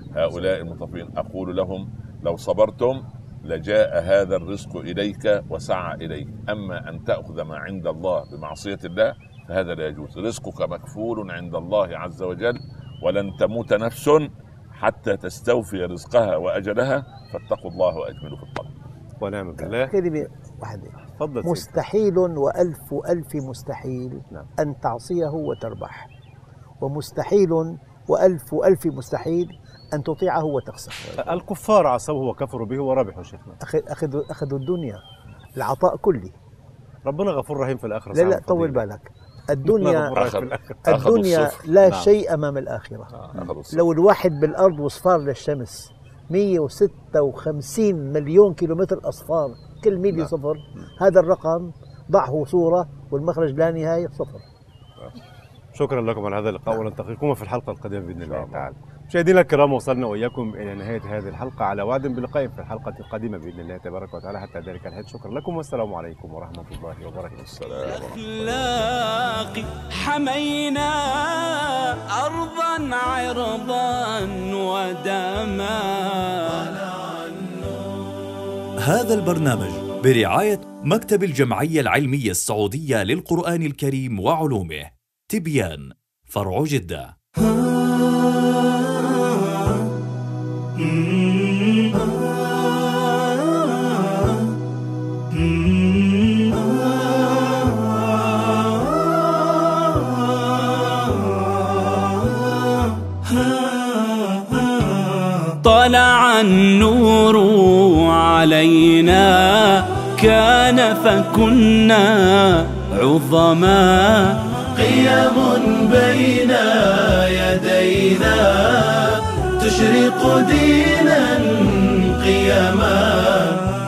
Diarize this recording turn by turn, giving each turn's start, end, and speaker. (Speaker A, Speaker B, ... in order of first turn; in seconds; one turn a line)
Speaker A: 0.1-18.7
Speaker B: 0.3-0.7
Speaker B: 19.2-19.9
Speaker C: 19.6-26.1
Speaker B: 21.1-21.8
Speaker C: 26.8-31.3
Speaker B: 31.2-33.6
Speaker C: 33.6-35.0
Speaker C: 35.6-36.3
Speaker B: 37.0-38.8
Speaker C: 38.1-40.2
Speaker B: 39.6-40.8
Speaker A: 40.2-41.7
Speaker C: 40.8-43.1
Speaker B: 41.9-42.1
Speaker A: 43.1-43.8
Speaker C: 43.7-54.4
Speaker B: 55.7-67.4
Speaker A: 58.2-58.7
Speaker A: 67.3-69.0
Speaker D: 67.8-77.0
Speaker E: 78.8-87.1
Speaker D: 105.5-114.4
Speaker F: 114.8-123.7